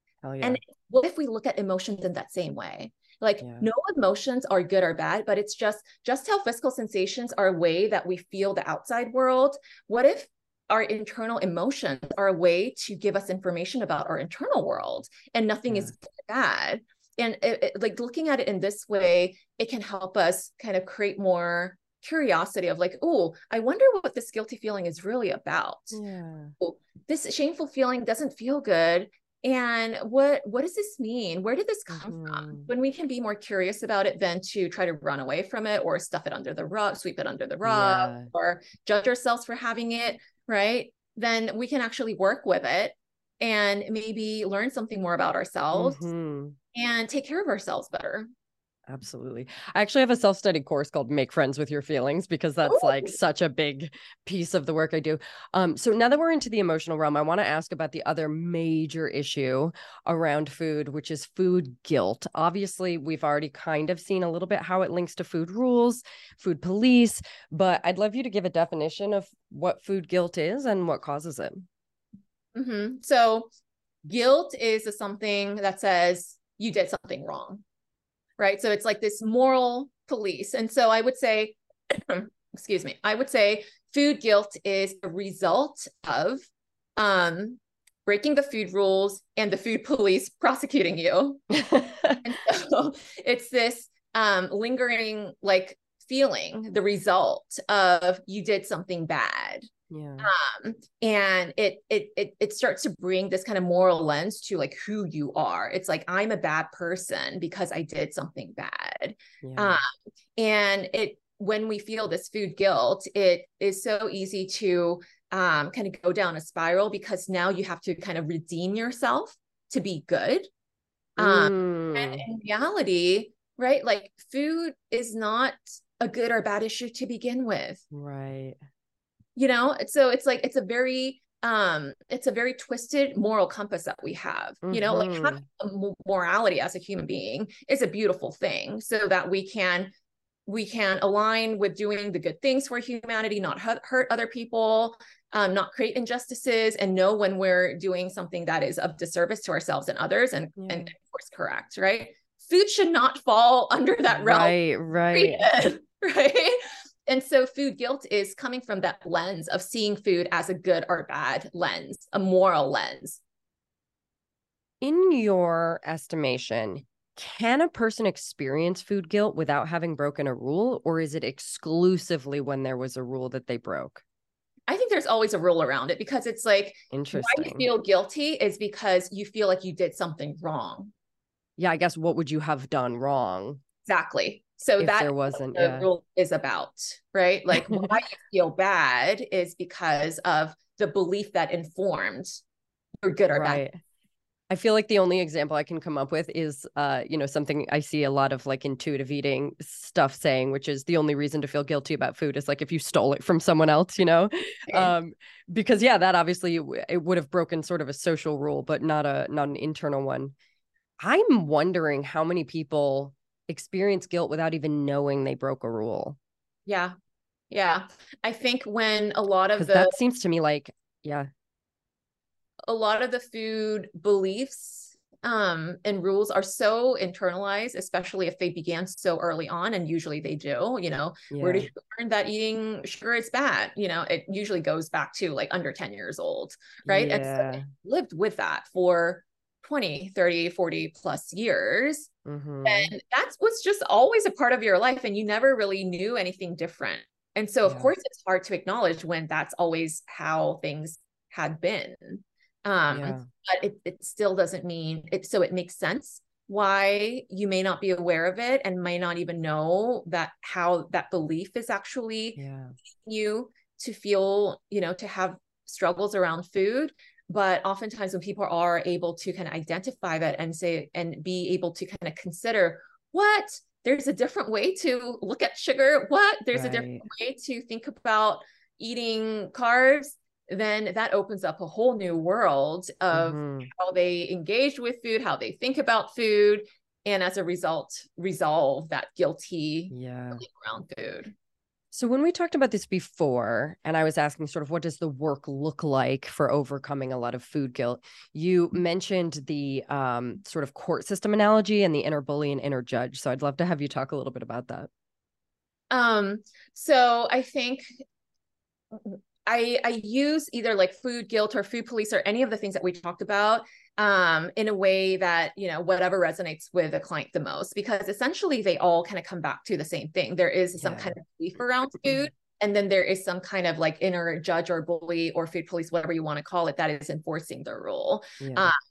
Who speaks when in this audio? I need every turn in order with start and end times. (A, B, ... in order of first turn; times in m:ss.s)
0:00.2-0:00.6 A
0:00.4-0:26.0 B
0:03.4-0:03.7 A
0:25.9-0:26.5 A
0:26.6-0:46.0 B
0:31.9-0:32.7 A
0:37.6-0:38.3 A
0:45.7-0:46.6 A
0:46.7-0:48.3 B
0:48.9-1:11.6 A
0:52.6-0:53.1 B
1:12.5-1:13.5 B
1:14.0-1:17.6 B
1:18.4-1:26.4 B
1:27.0-1:31.5 B
1:31.5-1:32.2 A
1:32.2-2:00.5 B
1:39.9-1:40.3 A
1:49.4-1:49.8 A
2:01.2-2:07.8 B
2:01.2-2:02.2 A
2:07.9-2:08.6 A
2:09.4-2:19.9 B
2:14.6-2:15.4 A
2:20.5-2:34.6 B
2:30.6-2:30.9 A
2:34.1-2:35.5 A
2:35.1-2:43.2 B
2:44.8-2:54.0 A
2:54.7-3:00.9 B
2:56.9-2:57.7 A
3:01.6-3:03.6 A
3:03.9-3:12.3 B
3:04.8-3:05.9 A
3:13.0-3:13.6 B
3:13.3-3:13.8 A
3:14.5-3:30.3 A
3:31.0-3:36.2 A
3:36.7-3:36.9 B
3:37.5-3:40.0 B
3:39.6-3:41.3 A
3:42.7-4:02.1 B
3:51.3-3:51.7 A
3:56.8-3:57.7 A
4:02.2-4:02.9 A
4:02.6-4:22.4 B
4:07.6-4:07.9 A
4:12.9-4:13.3 A
4:22.4-4:22.7 A
4:23.0-4:51.3 B
4:36.5-4:37.0 A
4:43.1-4:43.7 A
4:49.9-4:50.4 A
4:51.9-5:04.9 A
5:05.9-5:07.8 B
5:08.9-5:28.8 B
5:20.8-5:21.1 A
5:28.4-5:28.7 A